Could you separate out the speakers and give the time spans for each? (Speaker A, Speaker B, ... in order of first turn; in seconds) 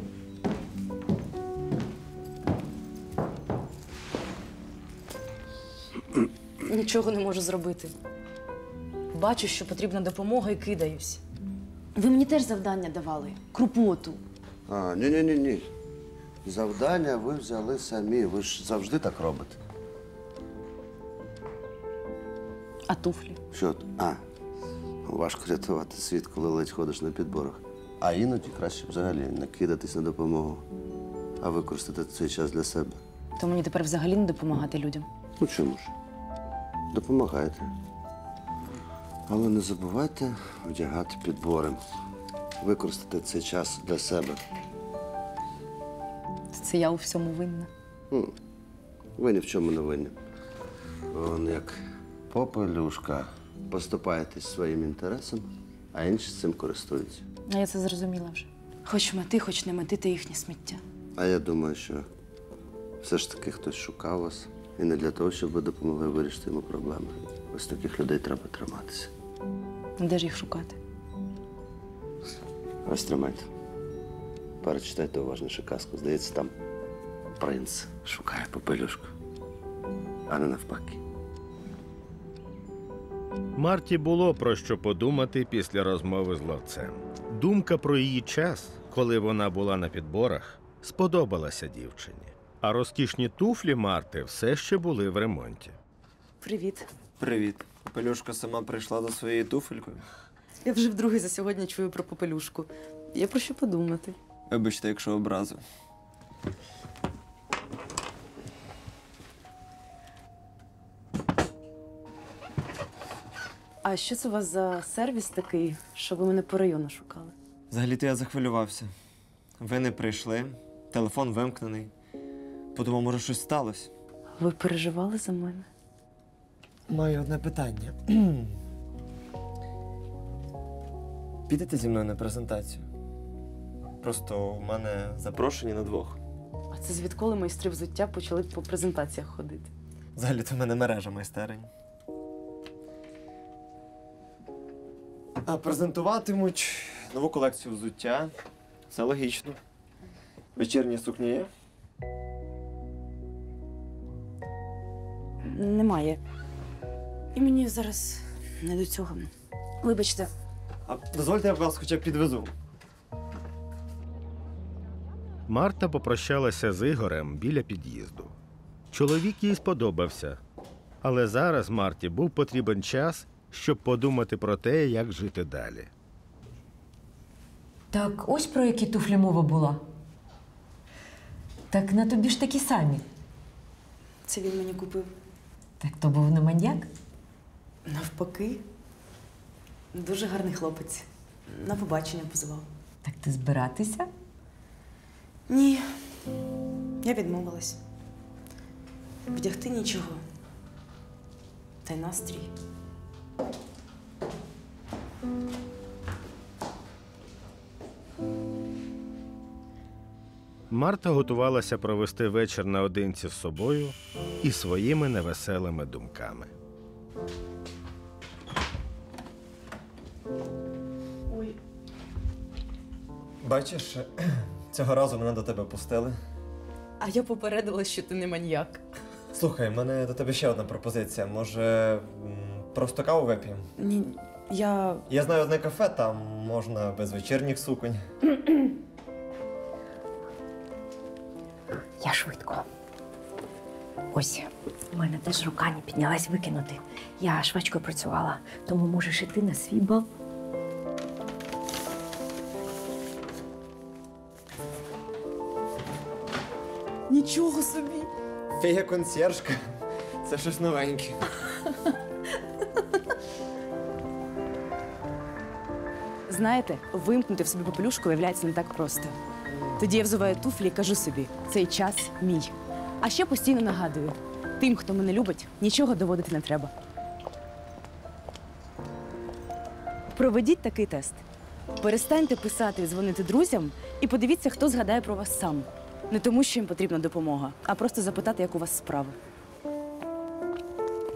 Speaker A: 6.6-7.9, 9.1-11.2, 11.9-14.2, 22.9-23.4, 33.4-35.1, 46.5-47.7, 57.5-60.8, 70.0-70.8, 96.4-96.9, 100.6-104.2, 113.8-117.3, 124.4-125.7, 136.7-139.7, 155.4-156.2, 157.3-160.3, 184.2-185.1, 187.8-188.6, 189.9-192.7, 195.5-196.2, 197.0-197.8, 199.3-200.2, 201.8-202.5, 221.3-221.6, 227.0-228.8, 233.8-235.0, 257.1-258.1, 266.3-269.2, 269.8-276.7, 280.1-281.2, 281.8-289.2
Speaker B: 14.7-15.7, 16.4-19.6, 23.5-24.2, 25.0-30.6, 31.4-33.0, 35.4-35.9, 36.9-37.7, 39.3-41.8, 42.6-44.4, 49.2-50.1, 51.1-57.2, 61.2-62.1, 63.0-69.1, 72.8-73.5, 74.6-76.5, 77.4-79.1, 80.3-81.0
Speaker C: 83.6-95.7, 165.5-168.3, 168.9-170.4, 171.0-175.9, 210.7-216.5
Speaker D: 97.2-100.0, 104.5-105.6, 117.7-118.9, 119.6-121.9, 122.7-123.9, 126.9-128.5, 131.5-132.8, 134.0-136.2, 140.2-141.7, 145.4-148.3, 148.9-149.6, 150.6-151.5, 160.8-162.5, 223.4-226.2, 229.3-233.7, 235.1-238.0, 258.6-261.3
Speaker E: 177.9-179.8, 181.7-183.0, 185.8-186.9, 193.0-194.1, 242.0-242.7, 244.1-250.1